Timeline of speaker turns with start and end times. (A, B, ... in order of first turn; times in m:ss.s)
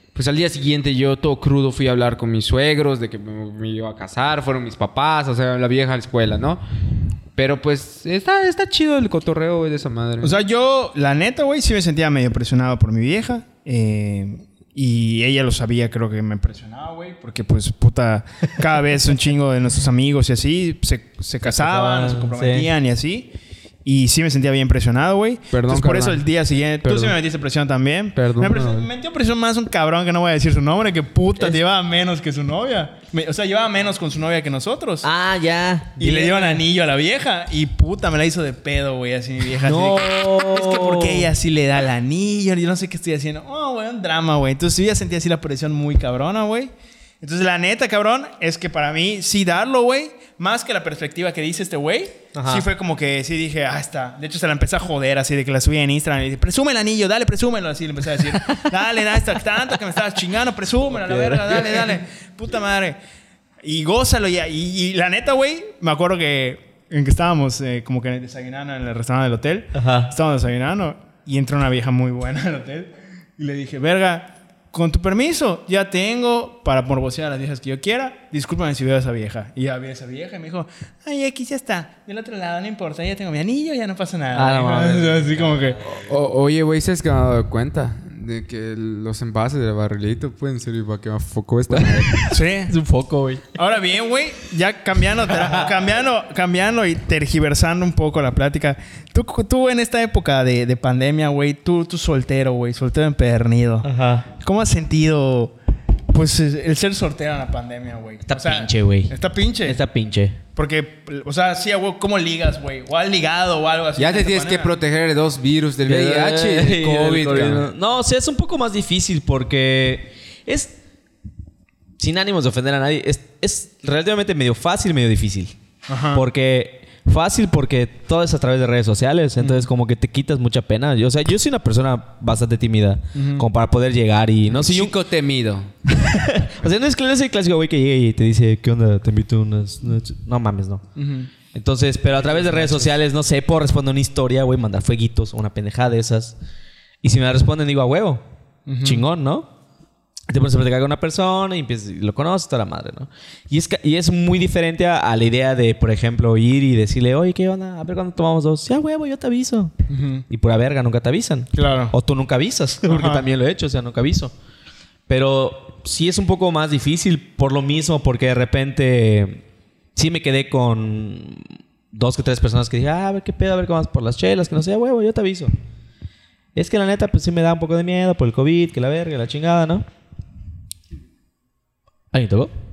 0:00.1-0:06.6 A
0:07.4-0:10.4 A
0:10.2-0:23.3 B
0:21.4-0:22.7 C
0:23.8-0:35.1 B
0:25.5-0:26.2 A
0:26.8-0:27.2 A
0:28.1-0:28.9 A
0:35.0-0:36.6 C
0:36.0-1:03.0 B
0:39.6-0:41.3 C
0:52.3-0:52.7 C
1:00.9-1:01.9 C
1:03.6-1:25.8 B
1:09.7-1:10.1 C
1:24.3-1:25.8 C
1:26.0-1:32.4 A
1:31.7-1:33.4 C
1:32.3-1:32.7 B
1:33.6-1:45.6 B
1:43.8-1:44.3 C
1:46.1-1:49.8 B
1:48.3-1:49.1 C
1:49.6-1:50.4 C
1:50.6-1:54.7 B
1:54.0-1:57.7 A
1:55.8-2:00.8 C
2:02.0-2:05.5 C
2:05.9-2:06.2 B
2:06.1-2:14.9 C
2:09.4-2:09.7 B
2:13.1-2:13.4 B
2:14.5-2:15.7 A
2:15.9-2:20.9 C
2:21.0-2:21.3 B
2:21.5-2:26.4 C
2:22.2-2:22.9 B
2:27.0-2:28.2 C
2:28.7-2:29.0 B
2:28.8-2:29.5 C
2:30.3-2:39.7 C
2:39.9-2:40.2 B
2:40.3-2:44.3 C
2:41.5-2:41.9 B
2:42.9-2:43.3 B
2:45.1-2:49.4 C
2:50.0-2:55.5 C
2:56.6-2:59.8 C
3:02.1-3:02.5 C